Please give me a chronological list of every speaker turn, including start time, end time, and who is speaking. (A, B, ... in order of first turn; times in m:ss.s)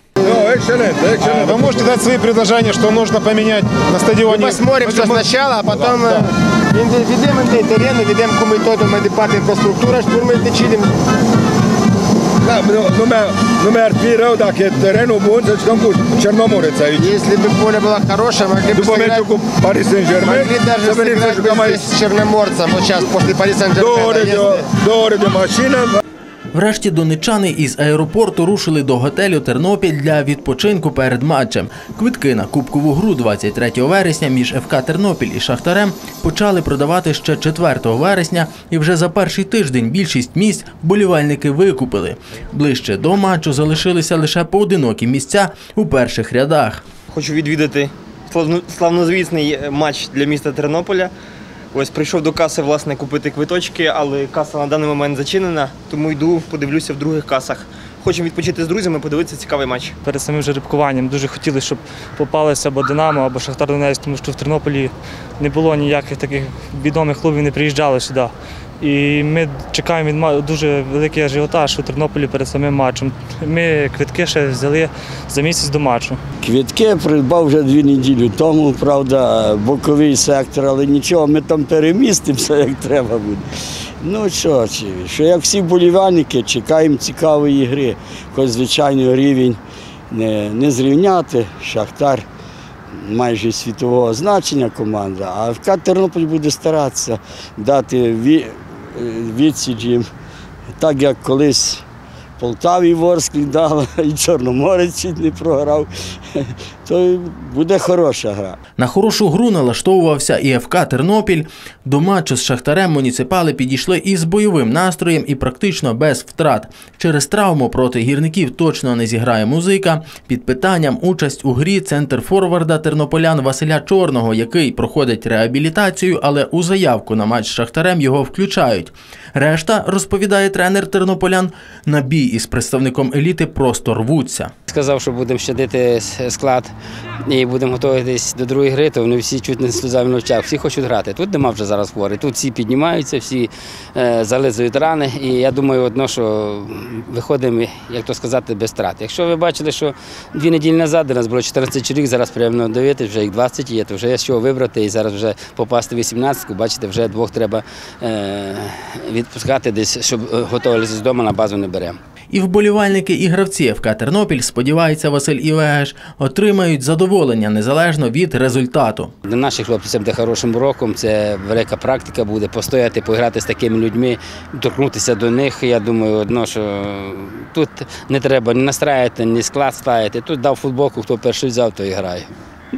0:00.2-0:02.0 A
0:01.2-0:05.3 B
0:04.3-0:10.9 C
0:05.9-0:06.2 B
0:12.4-0:17.2 A
0:17.0-0:19.3 C
0:18.8-0:21.9 A
0:20.1-0:24.7 C
0:23.8-0:26.0 A
0:26.5-0:46.8 D
0:47.1-0:51.1 E
0:51.7-1:00.0 E
1:00.0-1:16.2 F
1:16.4-1:23.4 G
1:24.0-1:29.6 G
1:30.1-1:32.2 G
1:33.0-1:40.1 G
1:40.8-1:41.8 G
1:42.4-1:48.6 G
1:48.8-2:14.5 D
2:14.7-2:16.7 H
2:17.2-2:42.0 H
2:42.3-2:49.1 D
2:49.3-3:02.3 H